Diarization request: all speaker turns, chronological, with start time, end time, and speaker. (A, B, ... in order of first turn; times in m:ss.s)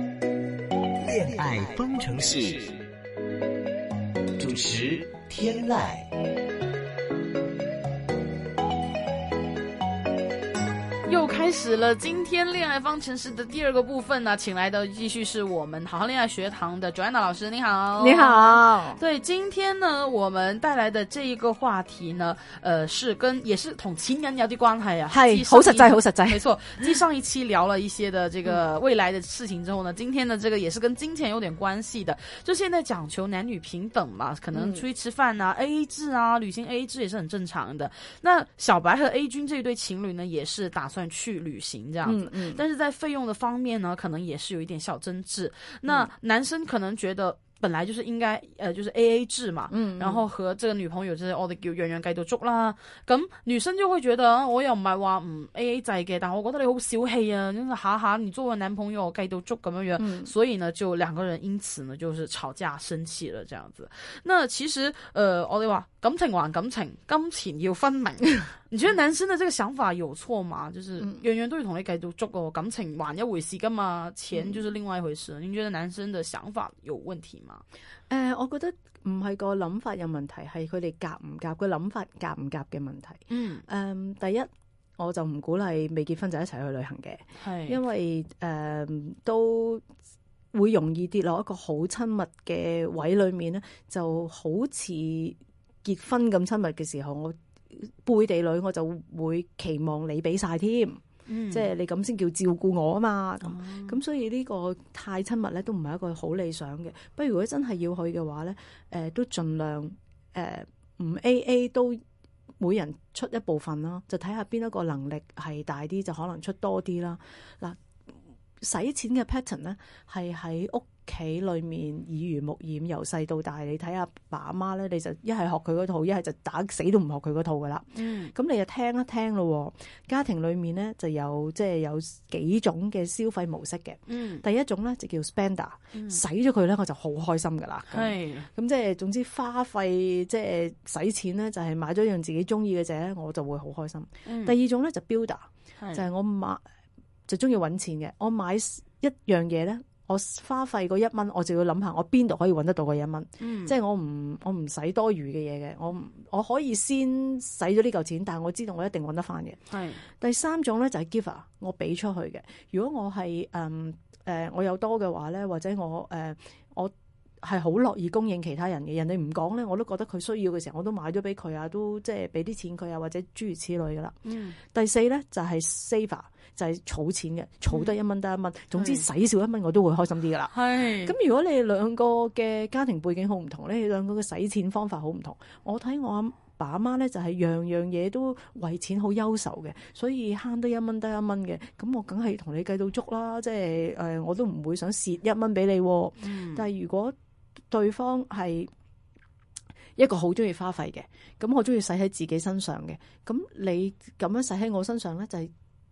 0:01.0-0:02.7 A
0:04.4-0:06.0 A
0:11.0-1:17.6 B
0:18.0-0:19.0 C
0:25.1-0:27.0 C
0:34.5-0:34.8 C
0:42.0-0:42.6 C
0:49.7-0:50.2 C
1:00.0-1:00.3 C
1:14.3-1:14.6 C
1:18.1-1:29.8 C
1:23.3-1:23.6 B
1:27.4-1:27.8 B
1:30.5-1:52.0 C
1:41.3-1:41.7 B
1:43.4-1:44.0 B
1:52.6-1:57.8 C
1:58.6-2:26.6 C
2:07.9-2:08.3 B
2:14.1-2:14.4 B
2:15.9-2:16.2 B
2:17.9-2:18.5 B
2:24.2-2:24.6 B
2:25.8-2:26.1 B
2:27.3-2:54.2 C
2:33.4-2:33.8 B
2:39.7-2:40.0 B
2:54.2-2:54.6 B
2:54.7-3:17.1 C
2:58.8-2:59.1 B
3:00.5-3:01.2 B
3:16.2-3:16.7 B
3:17.7-3:18.7 C
3:20.0-3:25.5 C